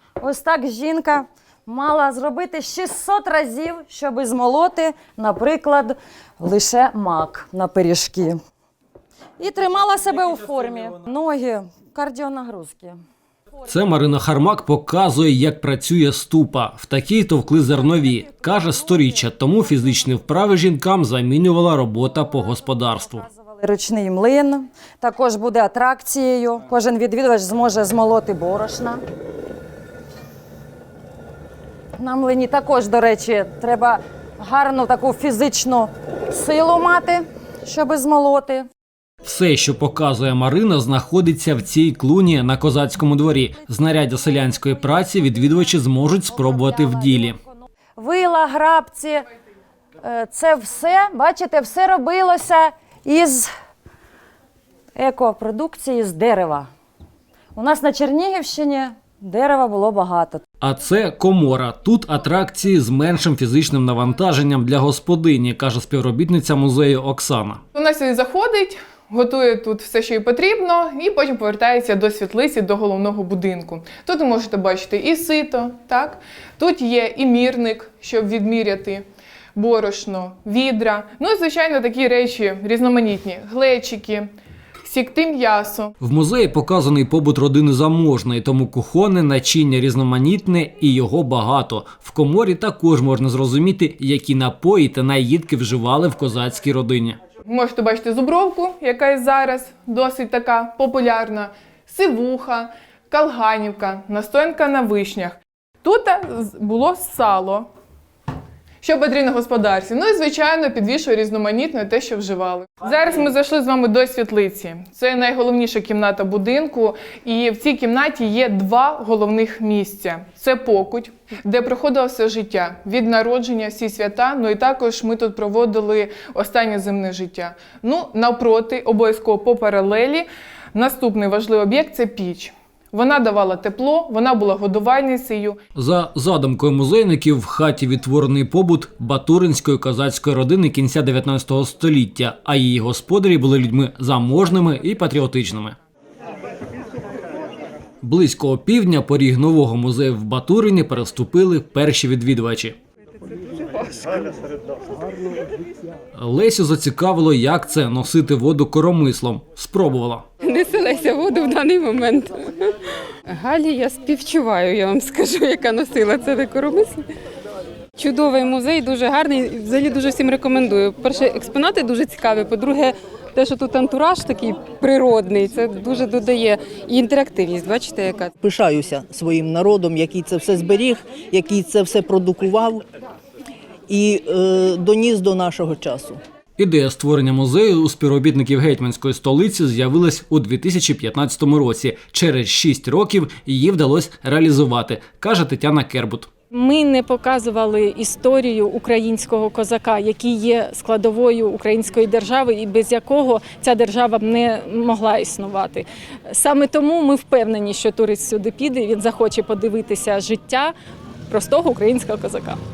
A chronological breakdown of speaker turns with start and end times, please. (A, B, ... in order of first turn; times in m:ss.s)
0:00.2-0:08.4 A
0:09.4-0:13.0 A
0:13.6-0:23.2 B
0:23.2-0:29.0 A
0:32.0-0:38.7 A
0:39.2-0:47.4 B
0:46.4-0:47.4 A
0:48.0-0:49.2 A
0:50.0-0:53.5 A
0:55.0-0:56.7 A
0:57.6-1:00.4 A
1:00.6-1:07.6 B
1:07.7-1:19.0 C
1:19.6-1:24.3 C
1:24.8-1:25.9 C
1:26.0-1:37.2 B
1:37.5-1:47.7 C
1:48.8-2:15.6 C
2:15.8-2:25.8 B
2:28.0-2:32.8 B
2:36.2-2:40.2 B
2:40.4-2:42.7 D
2:43.3-2:47.1 D
2:48.0-2:58.3 D
2:58.4-3:02.8 E
3:03.9-3:06.2 E
3:06.6-3:16.3 B
3:16.5-3:30.7 F
3:31.3-3:32.6 F